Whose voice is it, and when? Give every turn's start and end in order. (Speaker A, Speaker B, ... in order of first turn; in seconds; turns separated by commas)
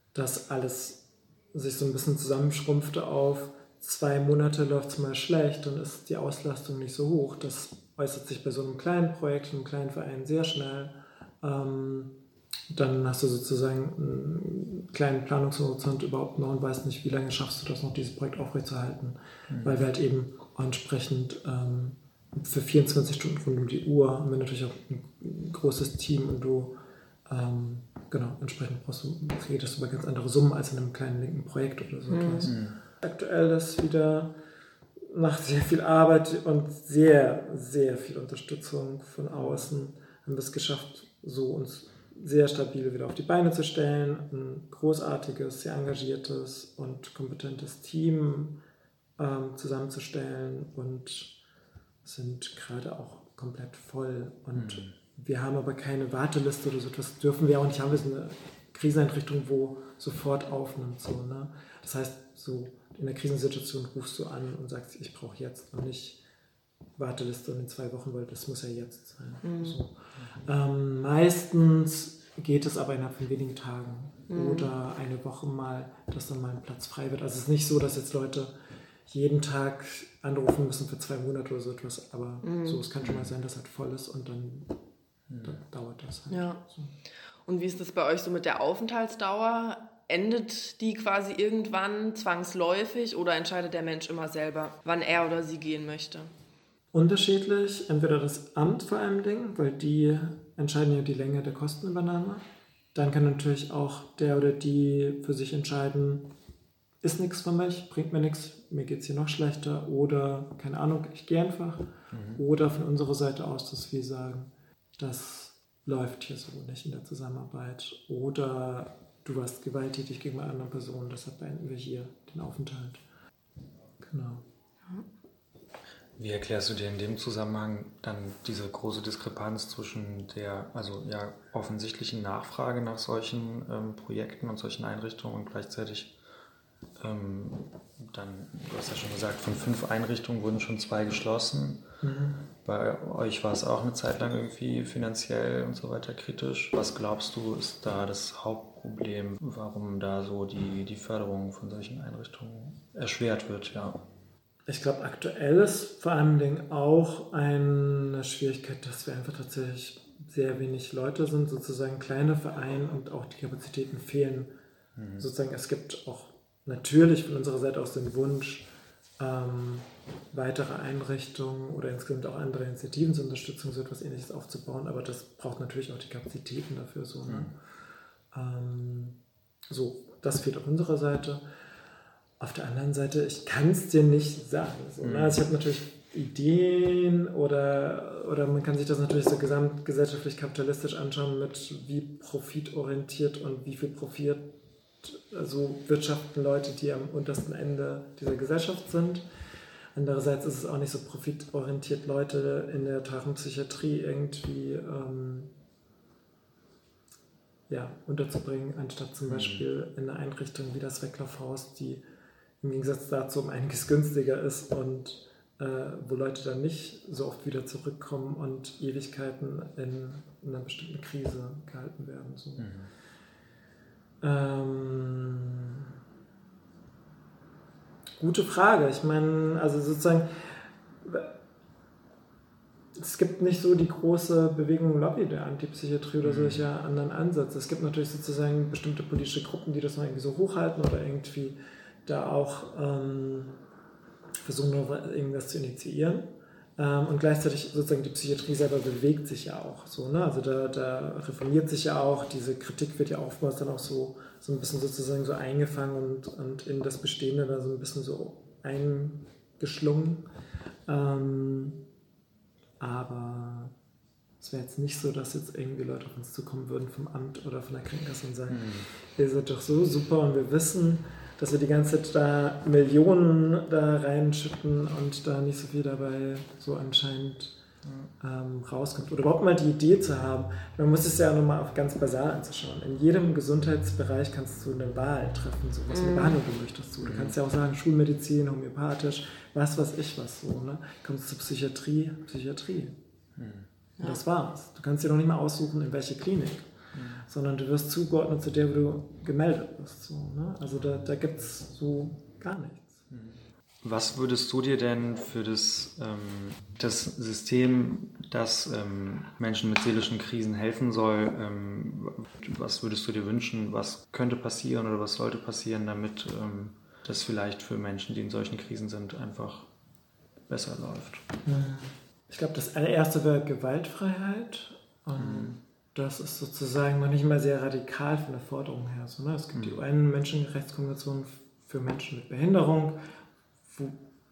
Speaker A: 0.1-12.2, Speaker A: 12.7-26.8, Speaker B: 19.5-19.8, Speaker A: 27.3-34.4, Speaker C: 32.1-32.5, Speaker B: 32.5-32.8, Speaker A: 35.1-48.6, Speaker B: 39.3-39.7, Speaker A: 49.2-51.4, Speaker A: 52.0-66.2, Speaker B: 54.5-54.9, Speaker A: 67.0-78.5, Speaker C: 69.4-69.8, Speaker C: 74.3-74.7, Speaker A: 79.1-84.8, Speaker C: 82.4-82.8, Speaker B: 83.0-83.3, Speaker B: 85.3-85.6, Speaker A: 85.4-87.0, Speaker C: 86.3-86.6, Speaker C: 87.5-96.3, Speaker A: 96.9-106.3, Speaker A: 107.0-123.0, Speaker B: 112.1-112.4, Speaker A: 124.0-124.4, Speaker B: 126.2-136.1, Speaker B: 137.0-141.9, Speaker A: 142.0-142.4, Speaker B: 142.6-154.0, Speaker A: 154.7-164.5, Speaker B: 165.0-165.3, Speaker A: 165.2-177.6, Speaker B: 177.3-177.5, Speaker A: 178.3-181.4, Speaker A: 182.4-199.2, Speaker B: 185.0-185.4, Speaker A: 199.9-205.5, Speaker A: 207.7-212.0, Speaker B: 209.3-209.6, Speaker A: 212.6-222.7, Speaker B: 222.6-222.9, Speaker A: 224.2-225.9, Speaker A: 228.2-231.3, Speaker A: 232.9-243.6, Speaker B: 236.2-236.6, Speaker A: 244.4-260.3, Speaker A: 260.9-261.8, Speaker A: 262.8-263.7, Speaker A: 264.4-277.6, Speaker B: 268.5-268.9, Speaker A: 278.2-293.0, Speaker C: 285.9-286.4, Speaker B: 287.0-287.3, Speaker B: 293.4-293.7, Speaker A: 294.0-296.7, Speaker B: 296.9-297.3, Speaker A: 297.2-303.0, Speaker B: 303.1-319.7, Speaker B: 320.5-321.2, Speaker A: 321.4-333.1, Speaker B: 325.2-325.6, Speaker B: 329.6-329.8, Speaker A: 333.7-334.0